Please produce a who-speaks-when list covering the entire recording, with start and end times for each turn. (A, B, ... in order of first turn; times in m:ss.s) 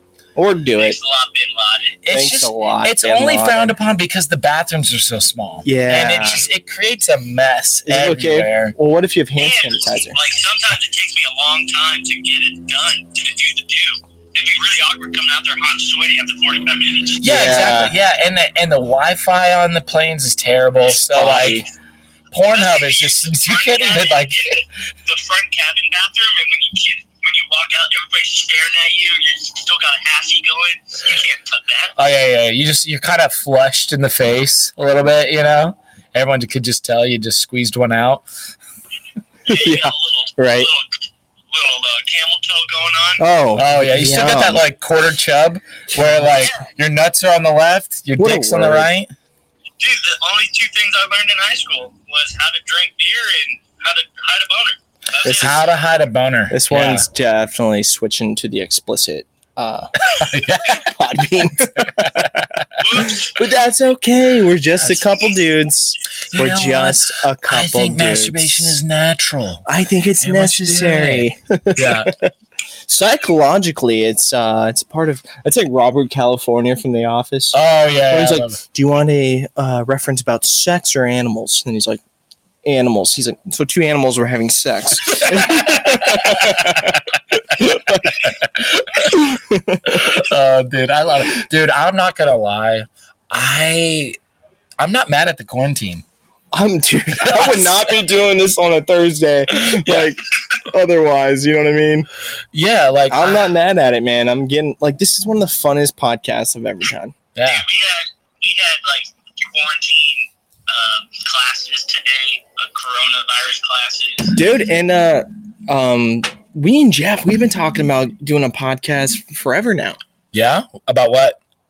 0:00.4-0:01.0 A
0:00.8-0:02.0 B
0:02.0-0:08.8 C
0:02.1-0:03.8 A
0:05.6-0:06.5 A
0:07.9-0:10.2 A
0:09.4-0:17.3 B
0:17.2-0:21.7 C
0:17.2-0:17.9 A
0:21.1-0:21.7 A
0:22.3-0:24.6 C
0:22.4-0:32.0 B
0:32.0-0:38.2 C
0:39.5-0:40.9 B
0:39.5-0:40.7 A
0:41.5-0:43.2 B
0:43.2-0:44.6 A
0:43.6-0:49.1 C
0:48.2-0:48.9 A
0:49.8-0:55.7 B
0:55.2-0:55.6 A
0:55.3-0:57.1 C
0:56.5-1:00.0 A
1:00.0-1:02.8 C
1:00.6-1:02.4 A
1:02.8-1:03.5 B
1:03.0-1:08.8 A
1:06.3-1:09.7 C
1:09.7-1:12.3 A
1:10.2-1:12.1 C
1:12.9-1:22.0 A
1:17.5-1:18.6 C
1:22.6-1:28.2 A
1:25.4-1:27.0 C
1:28.0-1:29.2 C
1:29.0-1:30.1 A
1:29.8-1:34.2 C
1:34.8-1:36.0 C
1:36.5-1:42.1 A
1:37.2-1:37.9 C
1:39.8-1:40.1 C
1:42.5-1:43.5 C
1:43.1-1:47.1 A
1:47.4-1:47.6 C
1:47.4-1:54.4 B
1:54.3-2:00.0 A
2:00.3-2:01.4 C